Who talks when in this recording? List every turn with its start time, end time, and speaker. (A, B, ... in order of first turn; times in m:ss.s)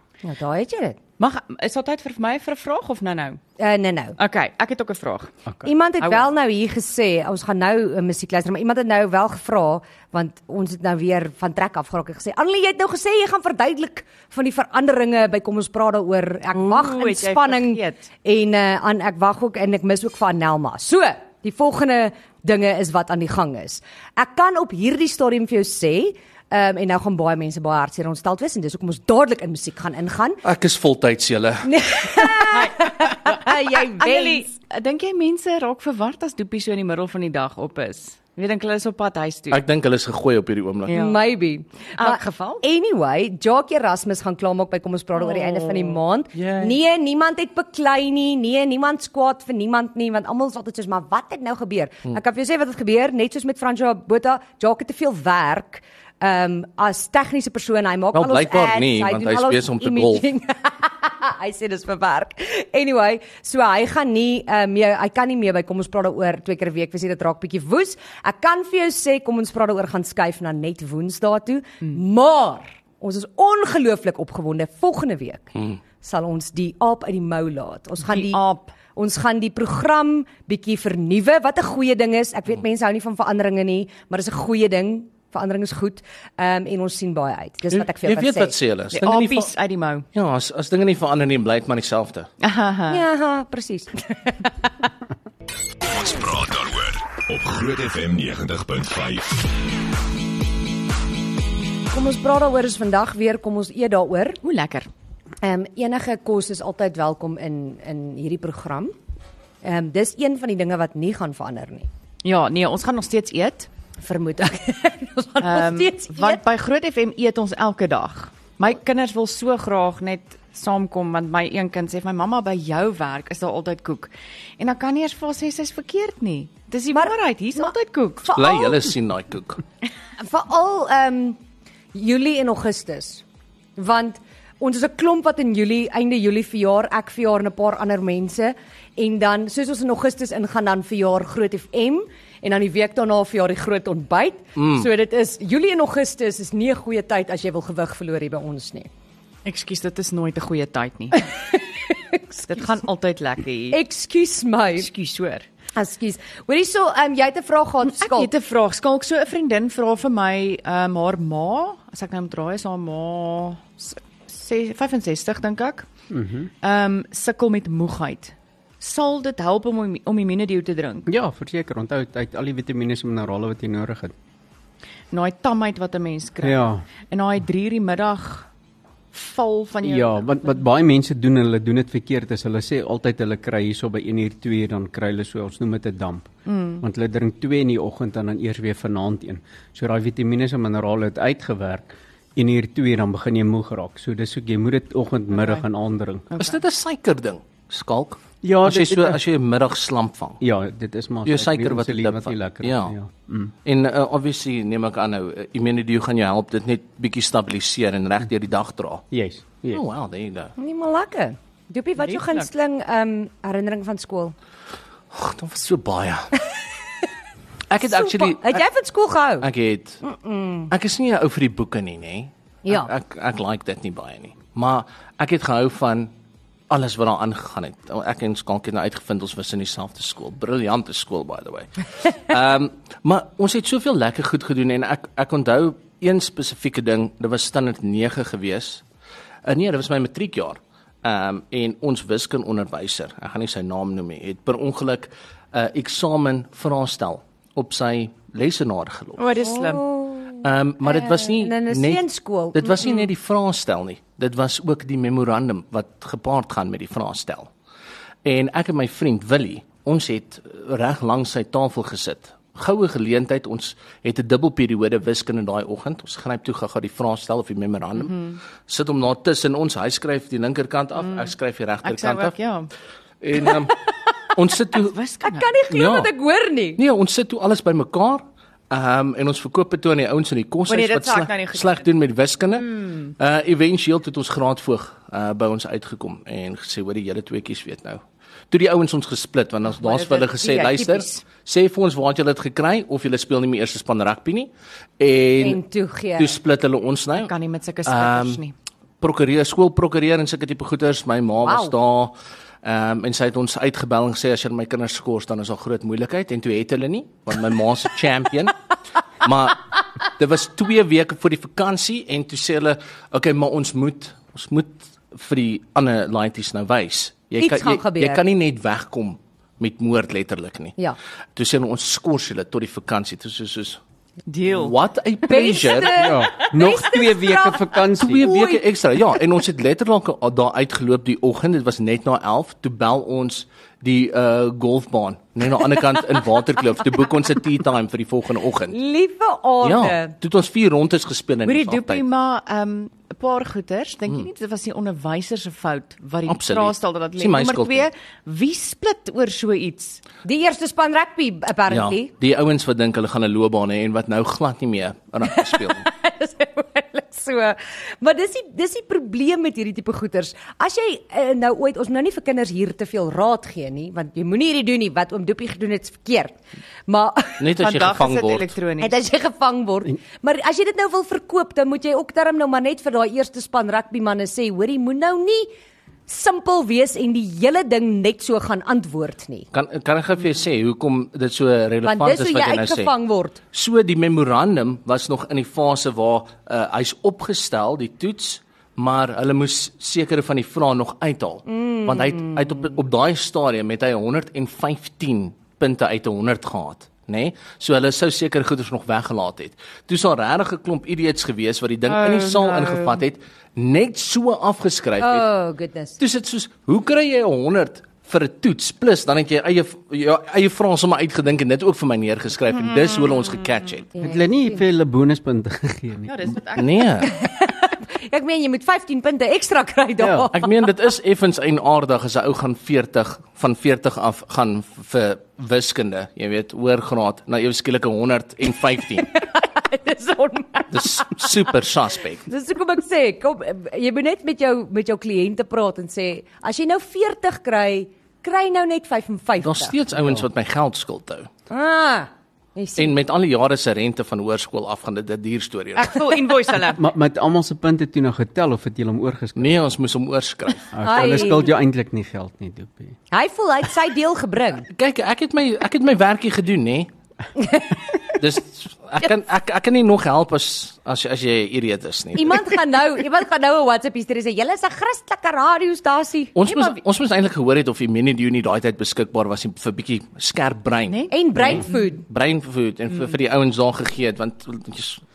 0:00.2-0:01.0 A
0:01.2-0:03.4 B
0:03.6-0:04.2 A
0:04.2-0:05.4 B
0:05.6-0:30.4 A
0:06.0-0:06.2 B
0:16.5-0:18.1 B
0:30.4-0:31.7 C
0:31.6-0:34.5 A
0:32.5-0:39.6 B
0:39.5-0:41.0 C
0:40.9-0:41.2 B
0:40.9-1:18.4 A
0:42.0-0:42.6 B
0:45.2-0:46.0 B
0:46.3-0:46.7 C
0:58.1-1:00.2 C
1:18.0-1:18.7 B
1:18.9-1:28.5 A
1:27.7-1:29.5 C
1:28.9-1:30.0 B
1:30.1-1:32.3 C
1:32.4-1:33.0 B
1:32.9-1:34.5 A
1:35.9-1:39.4 D
1:41.9-1:44.4 A
1:44.4-1:44.9 B
1:45.4-1:48.9 A
1:49.6-1:51.9 A
1:52.2-1:53.7 B
1:54.0-1:56.4 A
1:55.4-2:08.3 B
2:06.9-2:07.7 A
2:08.2-2:08.9 A
2:08.3-2:09.6 C
2:10.2-2:11.4 A
2:11.9-2:13.2 A
2:13.8-2:28.9 A
2:24.6-2:24.9 C
2:29.4-2:31.2 B
2:31.5-2:32.7 A
2:32.5-2:33.8 B
2:33.7-2:34.9 A
2:34.8-2:35.5 B
2:35.8-2:38.3 A
2:37.9-2:45.9 B
2:46.1-2:46.5 E
2:46.6-2:51.1 B
2:51.1-2:54.1 E
2:55.1-2:58.5 B
2:56.4-2:56.8 E
2:59.1-3:00.6 B
2:59.8-3:16.3 E
3:06.4-3:06.8 B
3:15.3-3:15.6 B
3:16.3-3:16.6 B
3:16.4-3:20.4 C
3:18.4-3:19.2 E
3:20.4-3:23.5 E
3:21.2-3:22.9 C
3:23.6-3:29.0 C
3:29.1-3:29.8 E
3:29.7-3:30.5 C
3:30.6-3:34.3 A
3:32.0-3:32.5 B
3:35.1-3:36.4 C
3:37.7-3:38.6 C
3:37.8-3:39.5 A
3:39.4-3:40.0 C
3:40.0-3:40.7 A
3:40.7-3:46.1 C
3:42.6-3:42.9 A
3:46.7-3:58.8 C
3:59.4-4:09.2 C
4:09.2-4:09.8 B
4:09.4-4:13.0 A
4:10.4-4:12.0 C
4:12.5-4:17.5 C
4:18.2-4:32.4 C
4:28.0-4:28.4 B
4:31.0-4:31.3 B
4:31.8-4:32.7 B
4:33.2-4:33.7 C
4:34.4-4:35.0 C
4:34.9-4:35.5 B
4:35.2-4:36.8 A
4:35.7-4:36.1 C
4:36.8-4:55.6 C
4:40.7-4:41.9 B
4:49.7-4:51.2 B
4:55.4-4:56.4 A
4:56.2-4:57.3 C
4:57.2-4:58.5 B
4:57.8-4:58.4 C
4:59.0-5:08.6 C
5:01.4-5:01.7 A
5:09.2-5:20.8 C
5:17.4-5:18.2 A
5:21.4-5:23.8 C
5:24.3-5:24.8 B
5:24.5-5:26.1 C
5:25.3-5:28.6 A
5:25.9-5:28.3 E
5:28.0-5:38.8 C
5:38.7-5:40.1 A
5:39.6-5:42.0 C
5:41.4-5:50.0 B
5:46.3-5:47.9 C
5:50.2-5:52.1 A
5:51.7-5:55.8 C
5:55.3-6:07.5 A
6:07.4-6:08.5 C
6:07.6-6:08.9 B
6:08.8-6:15.5 A
6:16.1-6:19.5 A
6:19.5-6:22.9 C
6:21.8-6:23.4 A
6:23.5-6:45.3 C
6:31.5-6:32.7 A
6:41.9-6:43.0 B
6:45.0-6:46.0 A
6:46.0-6:53.9 C
6:54.0-6:54.6 A
6:54.0-6:56.4 E
6:56.1-6:57.1 B
6:56.6-6:57.1 C
6:57.0-7:00.4 A
7:00.0-7:00.3 E
7:00.3-7:09.1 C
7:09.1-7:11.3 A
7:10.7-7:12.2 C
7:12.3-7:19.8 A
7:19.4-7:21.3 C
7:21.5-7:22.9 A
7:22.8-7:26.0 C
7:25.8-7:26.8 B
7:26.7-7:29.6 E
7:29.4-7:31.2 C
7:30.7-7:33.0 E
7:30.8-7:31.5 A
7:33.1-7:34.7 A
7:34.7-7:36.9 C
7:37.4-7:38.0 A
7:38.2-7:42.5 C
7:42.1-7:46.4 A
7:46.3-7:55.0 C
7:46.5-7:46.8 B
7:51.1-7:52.0 A